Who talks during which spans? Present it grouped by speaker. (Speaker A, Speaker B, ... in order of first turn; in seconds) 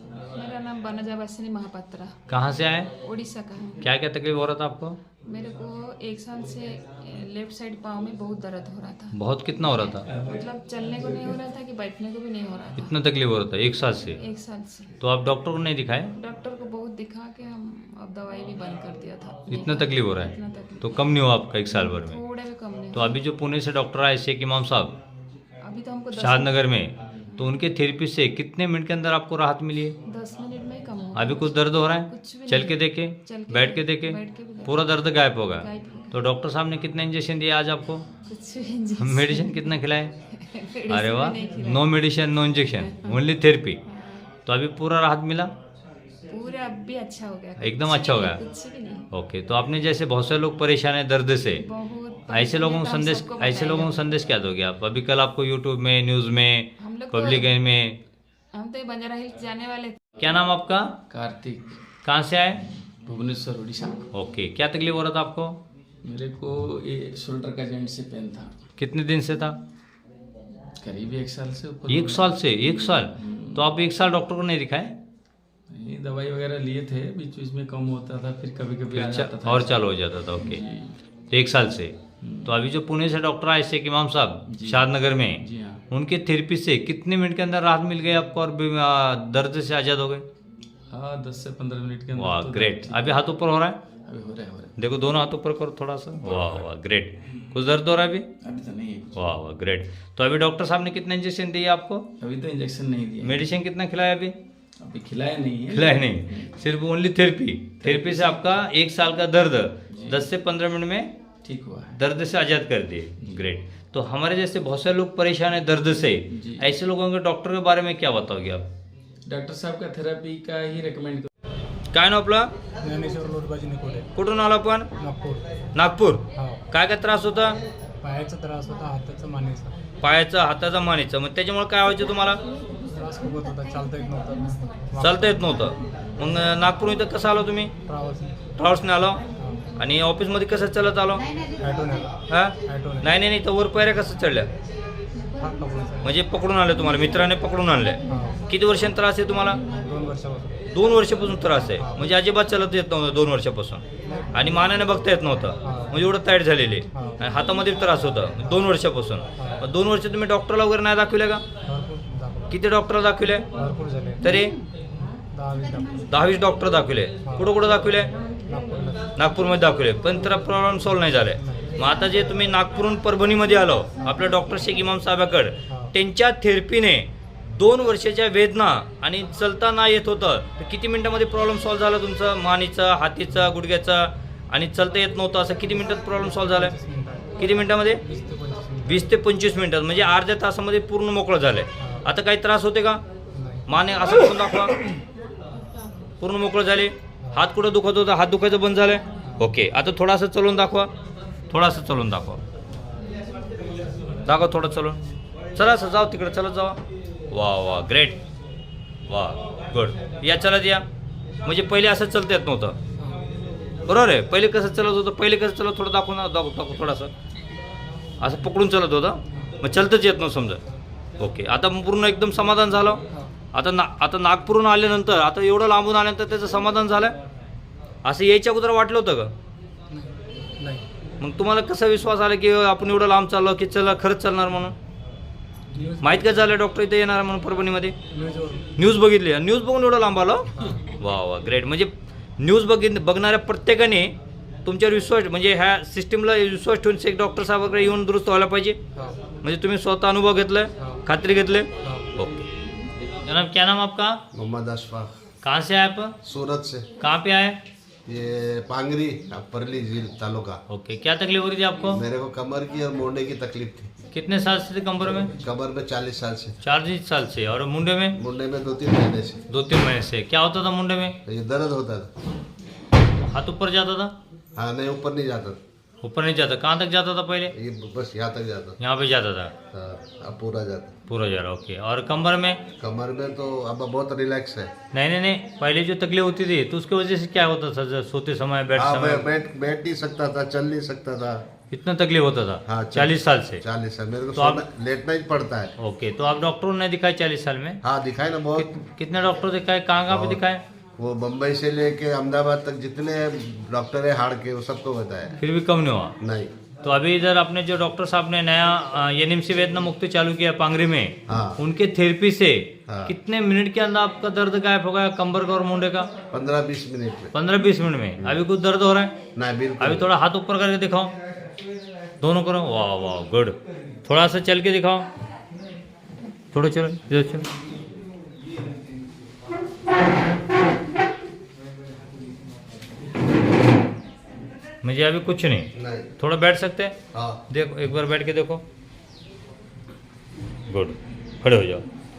Speaker A: 0.3-2.2, 2.9-3.9, 5.2-12.9, 14.2-14.9, 16.1-21.1, 21.9-23.2, 25.6-26.6, 30.1-36.2, 38.2-39.7, 40.3-42.0, 42.7-43.2, 43.9-44.3, 46.3-49.1, 51.5-54.1, 56.8-57.5, 58.5-60.0
Speaker B: 2.3-2.9, 3.8-5.0, 9.1-10.1, 12.8-14.2, 15.0-16.1, 19.5-22.2, 22.9-24.9, 26.1-29.9, 31.1-38.0, 39.0-40.1, 40.9-43.8, 44.5-45.5, 47.6-48.4, 49.1-51.6, 52.3-58.0, 60.2-60.9, 62.0-62.6, 64.1-65.6, 68.8-69.6, 71.9-75.0, 78.9-80.6, 81.3-90.2, 92.1-93.8, 94.8-98.2, 99.1-102.0, 103.2-104.3, 105.7-111.1, 112.0-118.7, 121.9-122.5, 124.1-124.9, 125.7-127.6, 130.0-132.4, 135.0-137.7, 138.6-139.2, 139.8-141.2, 142.3-144.5, 146.0-149.6, 150.7-153.8, 154.3-161.4, 162.5-163.5, 164.2-164.5, 166.1-168.1, 169.2-186.8, 187.4-188.0, 188.8-193.0, 193.7-194.8, 196.2-200.9, 201.5-202.4, 204.2-205.0, 205.6-206.8, 207.3-208.2, 209.1-210.8, 211.4-212.8, 213.8-217.1, 218.2-220.6, 221.2-223.0, 223.5-227.1, 228.0-229.3, 231.2-234.7, 236.0-237.9, 238.8-244.1, 244.6-248.8, 249.4-252.4, 253.2-254.2, 255.4-256.1, 257.0-257.6, 260.7-262.0, 264.1-265.3, 266.6-268.1, 269.5-271.2, 273.2-274.1, 276.0-277.5, 278.8-279.5, 281.1-282.6, 284.9-289.3, 291.7-293.6, 294.4-294.6, 295.8-297.8, 298.5-300.6, 305.4-306.1, 306.8-316.1, 317.3-319.1, 319.8-321.1, 322.2-325.1, 326.5-327.5, 334.8-336.9, 337.5-338.6, 340.7-341.8
Speaker C: 10.1-11.4, 61.1-61.8, 62.5-64.0, 66.0-68.6, 70.8-73.7, 75.7-81.0, 82.2-82.5, 84.5-85.8, 90.9-93.2, 94.1-94.7, 98.4-99.3, 102.2-103.4, 104.8-106.5, 107.8-108.6, 109.9-110.3, 111.4-112.0, 116.3-116.7, 119.2-121.3
Speaker D: 122.8-124.0, 125.0-125.4, 128.0-129.8, 132.8-135.4, 137.8-138.4, 139.4-139.6, 141.6-142.1, 142.6-143.1, 145.4-146.1, 148.1-148.4, 149.7-150.6, 151.7-152.0, 154.0-154.5, 155.6-156.0, 156.9-157.2, 159.4-159.6, 161.7-162.5, 163.6-164.2, 165.3-165.9, 168.4-169.1, 171.3-171.7, 186.3-189.1, 191.8-192.1, 193.3-193.6, 199.2-199.5, 213.0-213.3, 229.9-230.8, 235.7-236.3, 238.1-238.7, 251.8-252.1
Speaker E: 254.3-255.1, 256.2-256.9, 258.1-260.6, 261.9-263.9, 265.3-266.6, 268.1-269.4, 271.2-272.1, 274.6-275.6, 277.5-278.8, 279.7-280.9, 282.8-284.7, 288.8-291.4, 292.6-295.7, 297.8-298.7, 300.1-300.4, 301.0-305.4, 306.2-306.5, 311.3-311.6, 312.9-313.1, 316.3-317.3, 319.3-320.1, 335.8-336.1, 337.1-337.4